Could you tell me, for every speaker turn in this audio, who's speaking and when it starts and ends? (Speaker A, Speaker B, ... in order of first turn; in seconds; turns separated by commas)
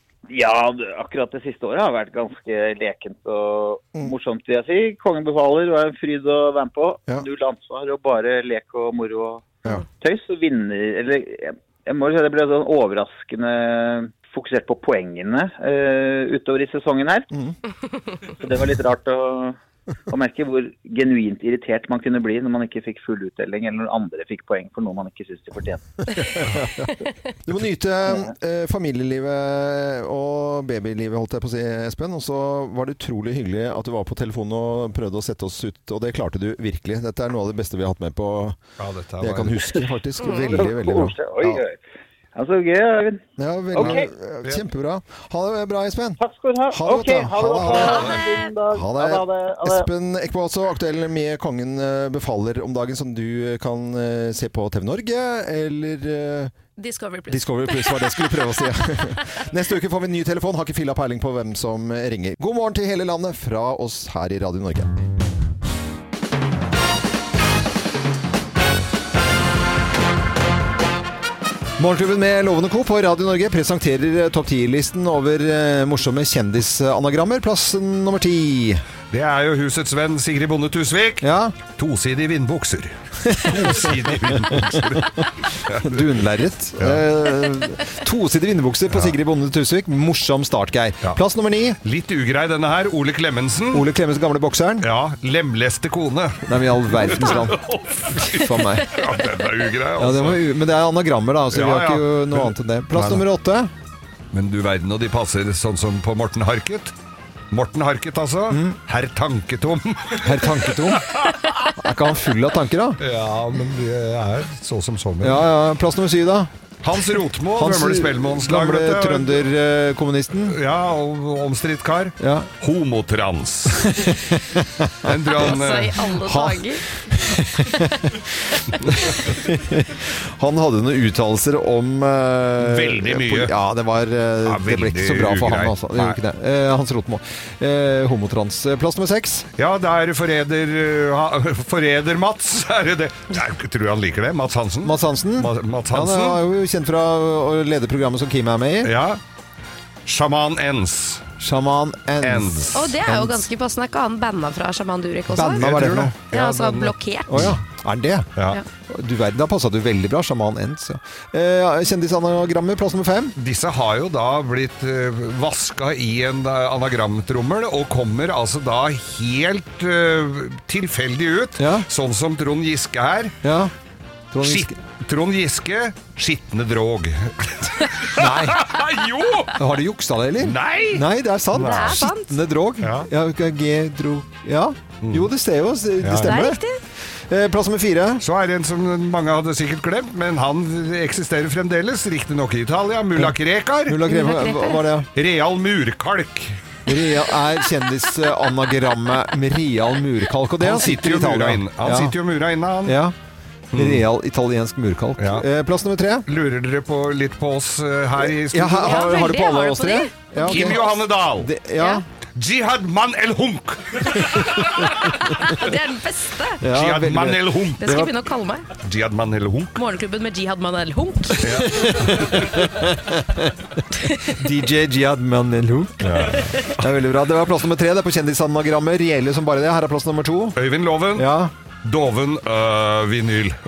Speaker A: 0.3-17.3, Speaker A: 18.3-19.6, Speaker A: 20.1-25.8, Speaker B: 26.2-26.9, Speaker B: 27.4-38.6, Speaker C: 38.8-39.6, Speaker B: 39.2-41.6, Speaker D: 40.2-40.6, Speaker A: 40.5-41.8, Speaker A: 42.4-44.0, Speaker B: 43.4-46.2, Speaker C: 43.8-44.6, Speaker A: 46.2-49.9, Speaker B: 46.7-48.1, Speaker C: 47.6-48.0, Speaker D: 47.7-48.5, Speaker B: 48.7-56.5, Speaker D: 56.8-59.2, Speaker B: 57.3-64.9, Speaker B: 71.8-78.8, Speaker C: 79.1-86.0, Speaker B: 81.2-81.6, Speaker B: 83.2-91.8, Speaker C: 88.9-89.2, Speaker C: 91.8-93.9, Speaker B: 93.7-94.9, Speaker C: 94.8-100.4, Speaker B: 96.5-99.0, Speaker B: 100.0-103.7, Speaker C: 101.5-103.3, Speaker C: 104.3-106.9, Speaker C: 107.5-111.7, Speaker B: 108.5-108.8, Speaker B: 110.2-111.1, Speaker B: 111.8-113.0, Speaker C: 113.0-115.5, Speaker B: 115.2-120.6, Speaker C: 116.8-119.5, Speaker C: 120.5-124.0, Speaker B: 122.2-122.5, Speaker B: 123.9-125.1, Speaker C: 125.0-126.1, Speaker D: 125.3-126.8, Speaker B: 126.2-128.3, Speaker B: 129.0-139.5, Speaker C: 132.6-133.5, Speaker C: 134.4-136.2, Speaker C: 139.6-146.4, Speaker B: 144.8-148.9, Speaker C: 148.8-149.2, Speaker C: 150.1-151.3, Speaker B: 151.4-153.5, Speaker C: 152.2-152.9, Speaker D: 152.7-155.7, Speaker B: 155.3-156.2, Speaker C: 155.6-157.6, Speaker D: 156.3-157.5, Speaker B: 157.3-158.3, Speaker B: 158.9-163.4, Speaker C: 163.4-173.4, Speaker B: 171.6-171.9, Speaker B: 173.4-173.7, Speaker B: 174.3-174.8, Speaker C: 174.4-179.6, Speaker B: 178.1-178.7, Speaker B: 179.5-186.6, Speaker C: 180.4-182.1, Speaker D: 181.6-182.4, Speaker C: 182.8-183.1, Speaker C: 185.0-185.3, Speaker C: 186.0-186.3, Speaker D: 186.2-186.8, Speaker B: 187.3-188.2, Speaker C: 188.2-194.0, Speaker B: 193.9-195.1, Speaker D: 194.1-194.8, Speaker C: 195.2-196.6, Speaker B: 196.9-202.2, Speaker C: 200.6-203.0, Speaker B: 202.9-203.2, Speaker C: 203.7-204.1, Speaker B: 203.7-206.3, Speaker C: 205.2-205.5, Speaker C: 206.3-209.1, Speaker B: 208.4-212.1, Speaker D: 208.8-211.0, Speaker C: 210.4-211.5, Speaker D: 211.8-212.0, Speaker C: 212.4-214.8, Speaker B: 214.3-214.8, Speaker D: 214.8-216.6, Speaker B: 216.6-218.1, Speaker C: 216.6-218.0, Speaker D: 217.8-218.7, Speaker C: 218.8-219.7, Speaker D: 219.8-221.4, Speaker C: 221.4-222.5, Speaker B: 221.4-230.6, Speaker C: 226.0-226.7, Speaker C: 230.6-233.6, Speaker B: 231.2-231.5